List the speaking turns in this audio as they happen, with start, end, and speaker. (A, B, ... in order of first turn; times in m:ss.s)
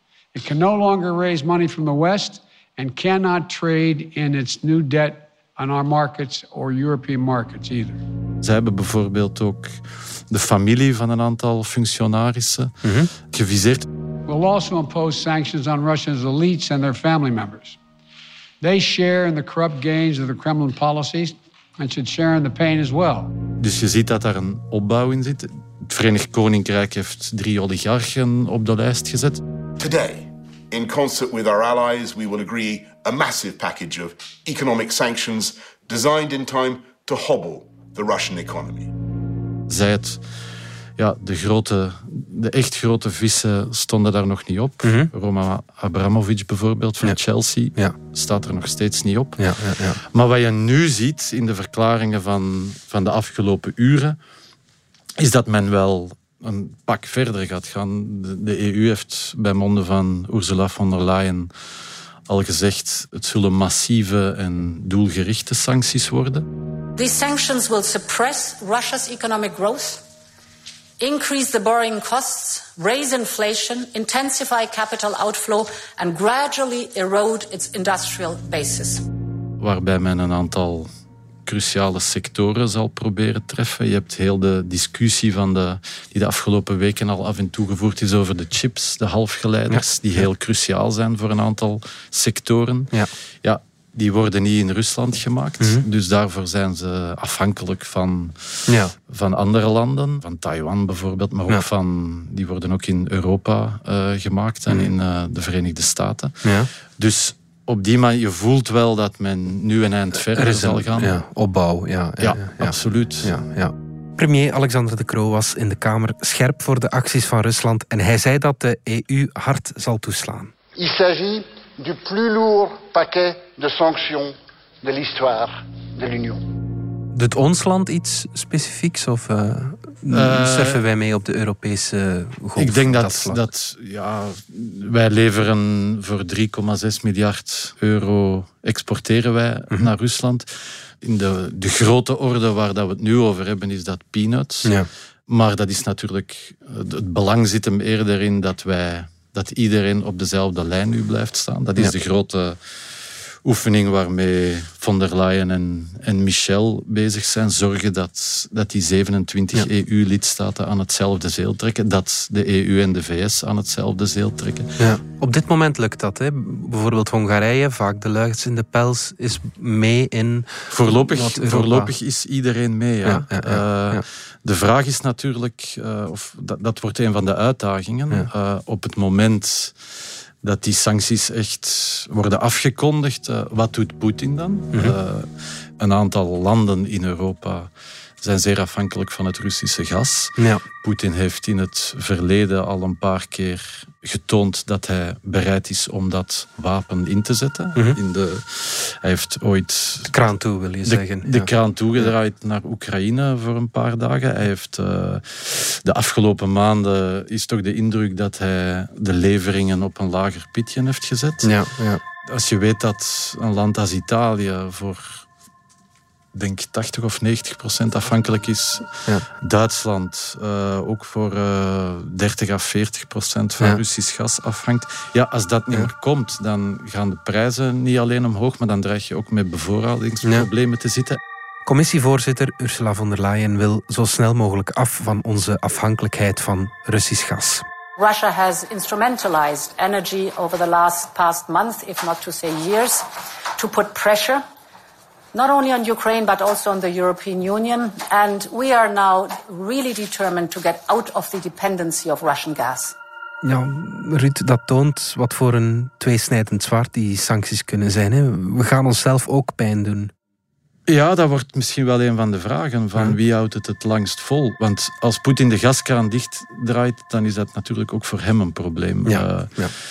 0:00.3-0:08.0 A
0:08.4-0:13.9 B
0:12.8-0:13.1 C
0:14.3-0:17.8 A
0:18.6-0:23.3 A
0:23.6-0:29.4 B
0:29.8-0:38.9 D
0:39.7-0:40.2 B
0:41.0-0:54.2 B
0:44.8-0:45.1 C
0:49.4-0:50.0 C
0:55.2-1:01.5 B
1:02.3-1:06.5 B
1:07.0-1:10.0 E
1:11.0-1:19.0 E
1:19.6-1:20.9 B
1:21.4-1:51.2 B
1:35.6-1:35.8 C
1:38.7-1:38.9 C
1:46.4-1:46.7 C
1:50.3-2:00.5 C
1:52.2-1:53.3 B
2:00.7-2:06.4 F
2:07.1-2:13.4 C
2:10.1-2:10.8 B
2:12.6-2:44.8 B
2:44.8-2:51.9 C
2:50.7-2:59.7 B
2:53.0-2:54.0 C
3:00.4-3:20.2 B
3:10.4-3:10.6 C
3:20.1-3:21.5 C
3:20.8-3:31.5 B
3:31.4-3:32.0 C
3:32.2-3:35.2 B
3:36.3-3:51.2 B
3:50.2-3:50.5 C
3:51.6-3:57.6 C
3:58.0-4:04.4 E
4:05.3-4:12.9 E
4:13.4-4:20.1 C
4:20.9-4:29.6 B
4:29.0-4:29.7 C